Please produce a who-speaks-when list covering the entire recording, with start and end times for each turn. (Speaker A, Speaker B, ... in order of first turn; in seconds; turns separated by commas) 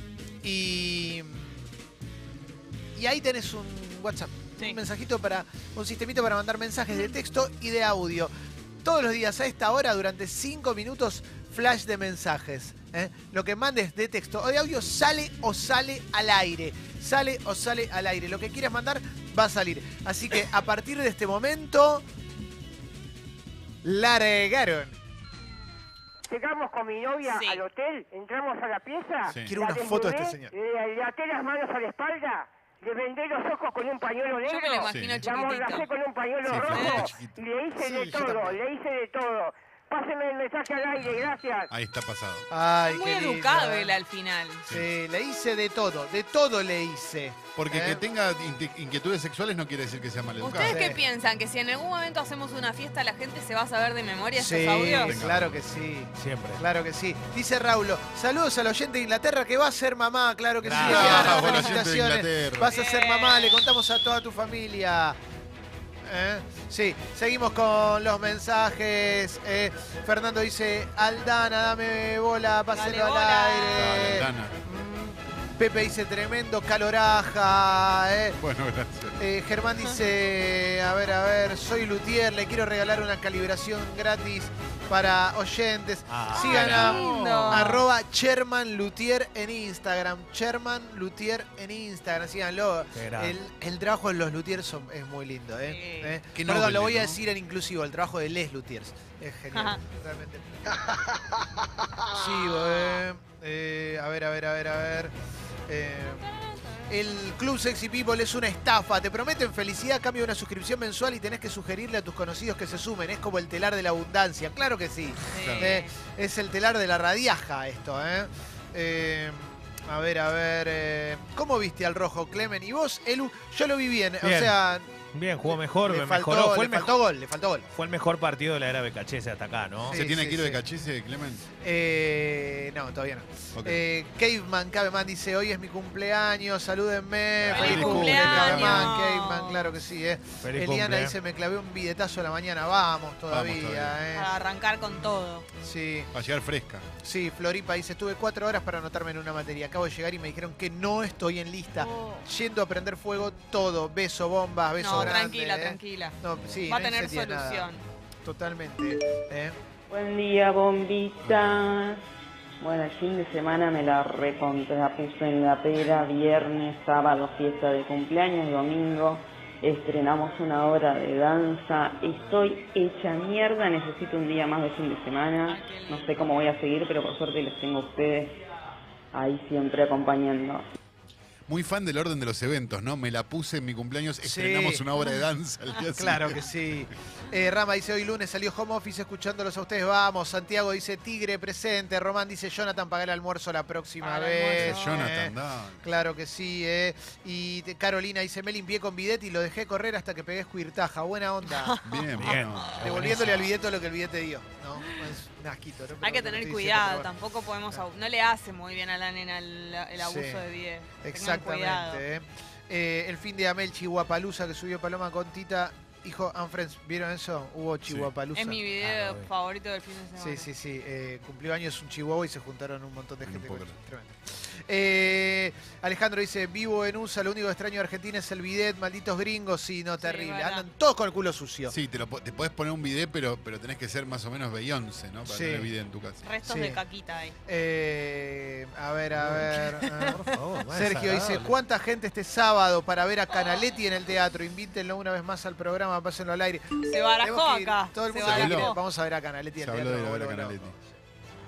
Speaker A: 0.4-1.7, Speaker A: 3.0-8.3, Speaker A: 8.8-22.0, Speaker A: 23.8-24.9, Speaker B: 26.3-41.7, Speaker C: 27.2-27.6, Speaker D: 29.3-29.5, Speaker A: 29.3-30.6, Speaker C: 34.4-35.9, Speaker D: 34.9-35.2, Speaker D: 36.5-37.4, Speaker C: 36.7-37.1, Speaker A: 37.8-38.6, Speaker D: 41.7-42.5, Speaker A: 42.5-44.0, Speaker C: 42.9-44.6, Speaker A: 44.7-48.0, Speaker D: 47.5-50.8, Speaker C: 50.4-55.2, Speaker A: 50.6-51.0, Speaker A: 54.3-65.2, Speaker D: 55.0-55.6, Speaker E: 56.1-56.6, Speaker E: 60.6-61.4, Speaker D: 60.8-62.7, Speaker C: 61.1-61.7, Speaker C: 62.7-63.6, Speaker A: 66.0-78.4, Speaker C: 72.7-74.0, Speaker D: 73.8-74.6, Speaker D: 78.4-79.2, Speaker A: 79.2-100.7, Speaker E: 86.1-87.0, Speaker C: 86.3-87.8, Speaker D: 86.5-87.7, Speaker E: 92.9-93.4, Speaker C: 95.6-96.2, Speaker D: 96.3-97.2, Speaker C: 99.5-99.8, Speaker A: 102.1-105.1, Speaker C: 102.5-103.0, Speaker A: 105.7-106.3, Speaker C: 106.1-106.9, Speaker A: 106.9-124.9, Speaker C: 115.3-115.9, Speaker D: 115.3-115.7, Speaker E: 124.2-124.5, Speaker E: 125.1-127.0, Speaker A: 125.5-127.7, Speaker E: 127.7-130.0, Speaker A: 129.8-130.6, Speaker D: 129.9-131.4, Speaker A: 131.6-144.4, Speaker D: 137.4-138.9, Speaker C: 137.5-139.7, Speaker E: 140.4-141.1, Speaker D: 143.3-144.0, Speaker C: 144.1-145.5, Speaker A: 145.6-146.1, Speaker D: 146.1-146.9, Speaker A: 147.0-157.7, Speaker C: 151.8-152.2, Speaker C: 154.8-157.8, Speaker A: 158.2-159.6, Speaker F: 159.9-162.0, Speaker D: 161.2-161.7, Speaker F: 162.6-178.3, Speaker C: 175.5-176.1, Speaker F: 179.1-180.7, Speaker D: 181.5-186.5, Speaker A: 184.2-184.8, Speaker A: 185.9-201.8, Speaker C: 194.0-195.1, Speaker D: 194.6-195.8, Speaker C: 201.4-202.1, Speaker D: 201.8-203.0, Speaker E: 202.2-203.5, Speaker A: 202.8-207.1, Speaker C: 206.0-212.0, Speaker A: 210.0-210.4, Speaker A: 211.0-218.6, Speaker C: 218.3-220.5, Speaker E: 218.8-219.3, Speaker A: 220.2-231.7, Speaker D: 223.2-223.7, Speaker C: 230.0-230.6, Speaker D: 231.7-236.2, Speaker A: 235.3-235.7, Speaker C: 236.2-237.3, Speaker A: 236.4-236.8, Speaker A: 237.4-250.9, Speaker E: 239.2-241.5, Speaker D: 240.8-241.1, Speaker C: 246.8-248.8, Speaker D: 248.2-248.7, Speaker D: 249.6-250.8